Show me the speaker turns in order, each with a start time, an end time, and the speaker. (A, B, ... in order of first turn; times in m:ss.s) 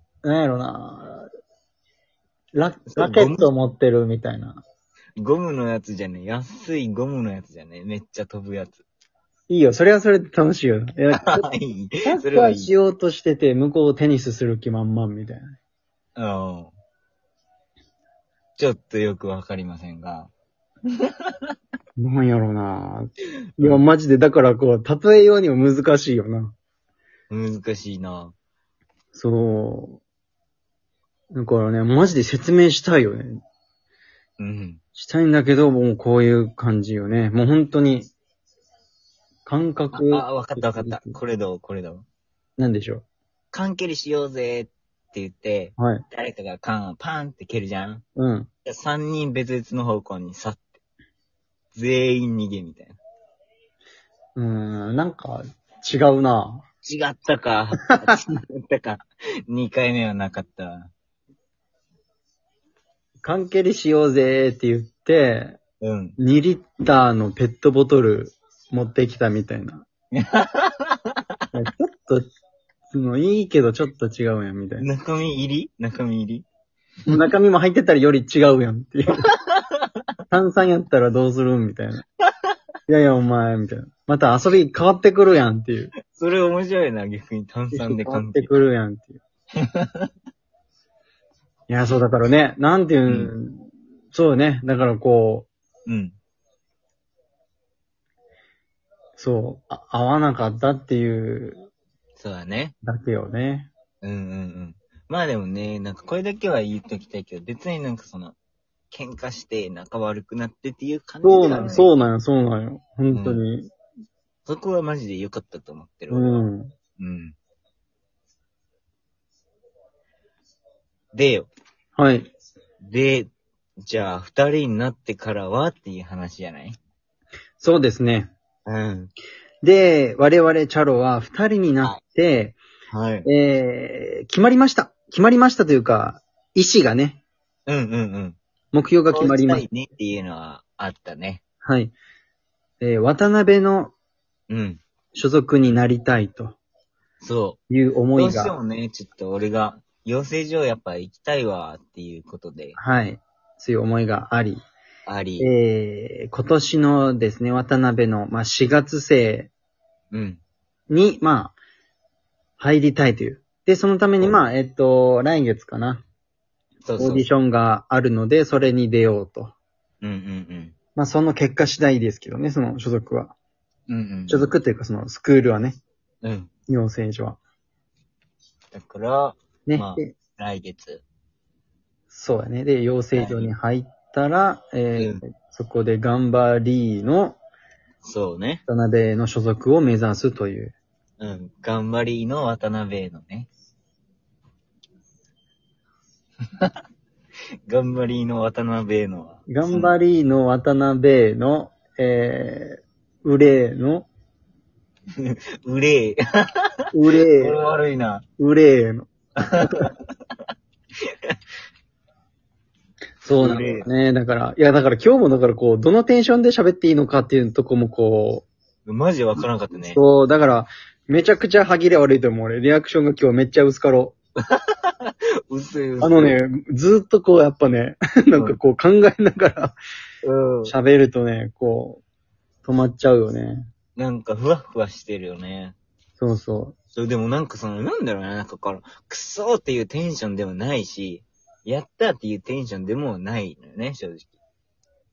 0:00.2-0:01.3 A
0:02.5-0:04.6 A
0:02.9-0:03.5 B
0:05.2-0:08.8 B
0:09.5-0:11.5 A
0:11.1-0:12.7 B
0:12.0-0:15.6 A
0:16.2-0:16.7 B
0:18.6-0:20.3 B
0:22.0-0:26.5 A
0:23.6-0:23.8 B
0:27.3-0:28.3 B
0:29.1-0:30.0 A
0:31.3-0:33.4 A
0:34.4-0:34.8 B
0:35.0-0:38.1 A
0:39.4-0:41.2 A
0:39.9-0:42.0 B
0:42.6-0:43.0 A
0:43.5-0:48.0 B
0:45.8-0:46.0 A
0:48.2-0:48.5 A
0:48.6-0:50.6 B
0:51.7-0:53.0 B
0:54.4-0:56.6 A
0:56.8-1:00.9 B
0:57.8-0:58.2 A
1:03.2-1:05.6 A
1:05.8-1:06.2 B
1:06.2-1:09.8 A
1:10.2-1:10.9 B
1:11.5-1:12.2 A
1:12.9-1:14.9 A
1:14.8-1:16.4 B
1:17.1-1:19.3 A
1:19.4-1:19.8 B
1:20.3-1:22.0 A
1:22.9-1:25.9 A
1:26.1-1:28.5 B
1:27.7-1:29.2 A
1:29.6-1:30.1 B
1:31.7-1:35.5 A
1:33.1-1:33.3 B
1:35.8-1:36.2 B
1:39.2-1:41.6 A
1:42.2-1:42.8 B
1:42.8-1:43.7 A
1:44.0-1:48.4 B
1:48.9-1:51.9 B
1:51.2-1:53.7 A
1:53.1-1:53.4 B
1:54.4-1:56.4 B
1:56.1-1:56.7 A
1:57.0-1:57.4 B
2:01.1-2:01.5 B
2:02.0-2:02.3 A
2:02.8-2:03.3 B
2:03.8-2:06.8 B
2:07.6-2:08.3 A
2:08.6-2:09.1 B
2:09.6-2:12.6 A
2:12.9-2:13.3 B
2:13.2-2:17.2 A
2:17.7-2:18.4 B
2:18.7-2:19.6 A
2:19.1-2:21.4 B
2:21.6-2:21.9 A
2:22.8-2:23.9 A
2:24.5-2:24.8 B
2:25.1-2:26.6 A
2:27.2-2:27.6 B
2:27.7-2:28.6 A
2:28.1-2:32.8 B
2:32.8-2:34.6 A
2:35.0-2:35.5 B
2:35.4-2:39.5 A
2:40.1-2:40.4 B
2:40.9-2:41.5 A
2:42.6-2:46.0 A
2:46.8-2:47.2 B
2:47.0-2:49.5 A
2:50.0-2:50.8 B
2:51.0-2:53.3 A
2:53.9-2:54.5 B
2:54.3-2:55.8 A
2:56.2-2:56.5 B
2:56.7-2:57.4 A
2:58.7-3:01.0 B
2:59.7-3:00.1 A
3:02.1-3:07.4 A
3:03.1-3:03.5 B
3:05.0-3:05.2 B
3:08.0-3:08.6 B
3:08.7-3:10.8 A
3:11.2-3:13.5 B
3:17.7-3:19.9 B
3:19.5-3:24.1 A
3:25.2-3:26.2 B
3:26.9-3:27.6 A
3:27.1-3:28.2 B
3:28.4-3:29.9 A
3:29.4-3:29.9 B
3:33.2-3:38.5 A
3:33.4-3:33.9 B
3:38.9-3:40.0 B
3:39.9-3:44.2 A
3:44.5-3:46.4 B
3:46.0-3:49.8 A
3:50.2-3:50.7 B
3:50.6-3:52.0 A
3:52.6-3:53.7 A
3:54.0-3:55.8 B
3:56.2-3:56.8 A
3:56.9-4:04.3 B